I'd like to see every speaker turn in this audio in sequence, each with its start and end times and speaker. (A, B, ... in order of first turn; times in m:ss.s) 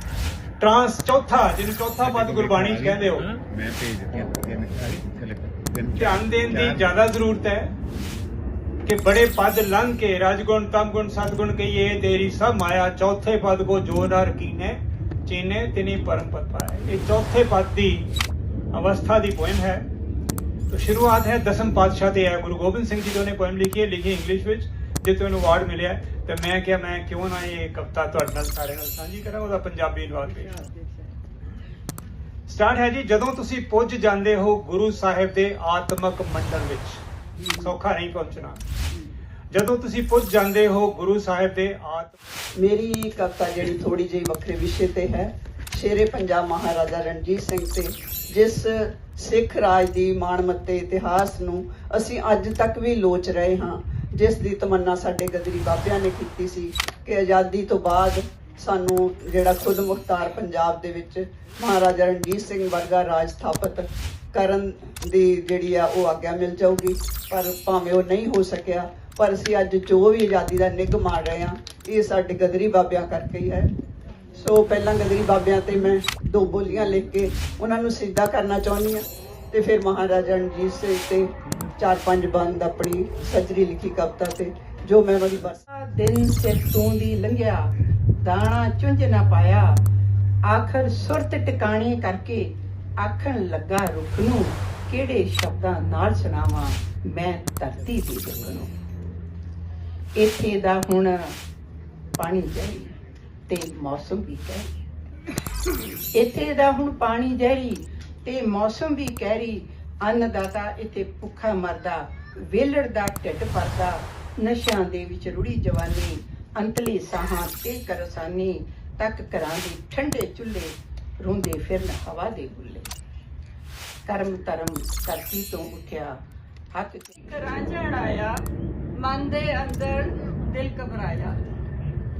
0:00.6-0:03.3 A
0:02.0-0:06.9 B
0:06.0-0:07.7 A
0:08.8-0:18.1 A
0:18.7-0:19.9 A
0:20.7-0:30.6 A
0:32.5-0:37.0 A
0:37.6-0:38.6 A
0:39.5-0:42.2 A
0:42.6-1:13.7 C
1:14.3-1:25.6 C
1:25.7-1:27.7 D
1:28.2-1:29.8 D
1:30.4-1:38.7 D
1:40.2-1:41.4 D
1:42.2-1:43.0 D
1:43.5-1:44.8 D
1:46.1-2:02.9 D
2:04.0-2:06.2 D
2:06.7-2:07.2 D
2:07.2-2:08.3 E
2:09.0-2:11.4 E